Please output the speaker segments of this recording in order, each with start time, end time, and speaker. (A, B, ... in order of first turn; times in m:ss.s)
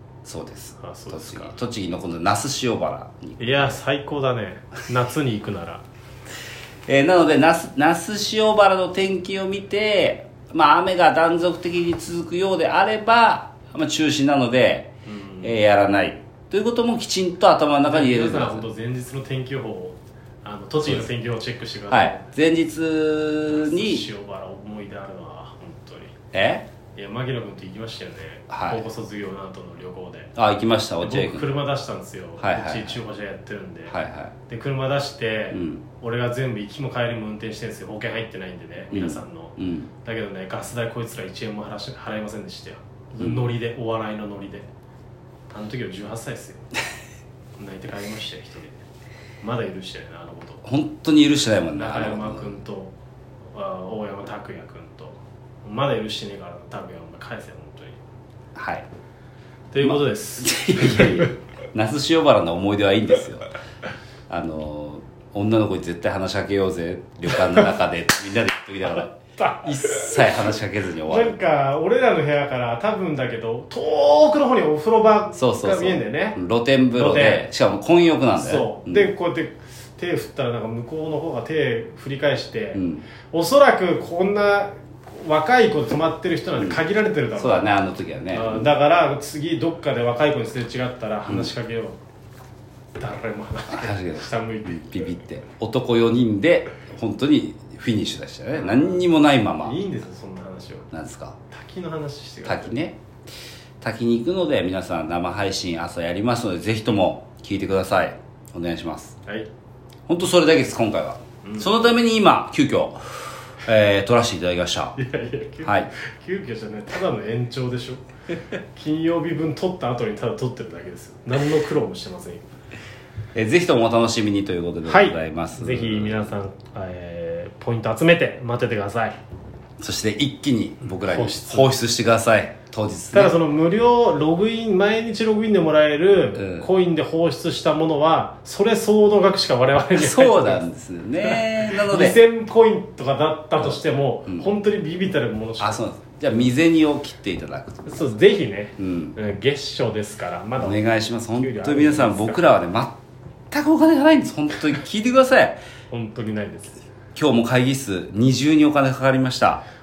0:00.2-0:03.8 A
0:00.8-0:01.6 B
0:03.4-0:05.8 B
0:06.9-0:18.6 A
0:15.0-0:15.5 B
0:17.9-0:22.3 B
0:21.9-0:24.0 A
0:23.5-0:26.1 B
0:26.3-0:26.7 A
0:26.9-0:30.3 B
0:28.5-0:28.8 A
0:30.4-0:31.6 A
0:31.0-0:34.0 B
0:32.4-0:33.0 A
0:33.9-0:34.3 A
0:34.5-0:44.7 B
0:35.5-0:35.8 A
0:38.9-0:39.9 A
0:45.5-0:46.7 B
0:47.6-0:48.8 B
0:49.4-0:50.6 B
0:50.6-0:52.5 A
0:51.8-0:52.9 B
0:53.5-0:58.0 B
0:58.5-0:58.9 A
0:59.7-1:01.3 B
0:59.8-1:03.5 A
1:04.3-1:11.4 A
1:07.3-1:07.7 B
1:08.8-1:10.5 B
1:11.1-1:16.4 B
1:15.3-1:19.1 A
1:16.9-1:17.4 B
1:18.4-1:27.7 B
1:22.7-1:23.0 A
1:27.4-1:28.7 A
1:28.3-1:32.0 B
1:33.0-1:35.0 B
1:33.7-1:39.8 A
1:38.6-1:39.0 B
1:39.6-1:40.9 B
1:40.9-1:41.4 A
1:41.5-1:42.8 B
1:42.4-1:43.0 A
1:43.8-1:49.2 A
1:50.1-1:55.0 A
1:51.4-1:51.7 B
1:55.0-1:58.0 B
1:55.6-1:55.9 A
1:58.7-2:02.4 B
2:03.3-2:06.3 A
2:04.8-2:09.2 B
2:09.8-2:13.3 A
2:10.8-2:11.7 B
2:13.1-2:20.6 B
2:16.4-2:16.7 A
2:19.9-2:22.2 A
2:21.2-2:25.8 B
2:25.6-2:28.0 A
2:27.8-2:30.8 B
2:28.8-2:29.2 A
2:30.6-2:33.0 A
2:31.3-2:32.6 B
2:33.5-2:35.6 A
2:35.9-2:36.8 B
2:37.1-2:39.6 A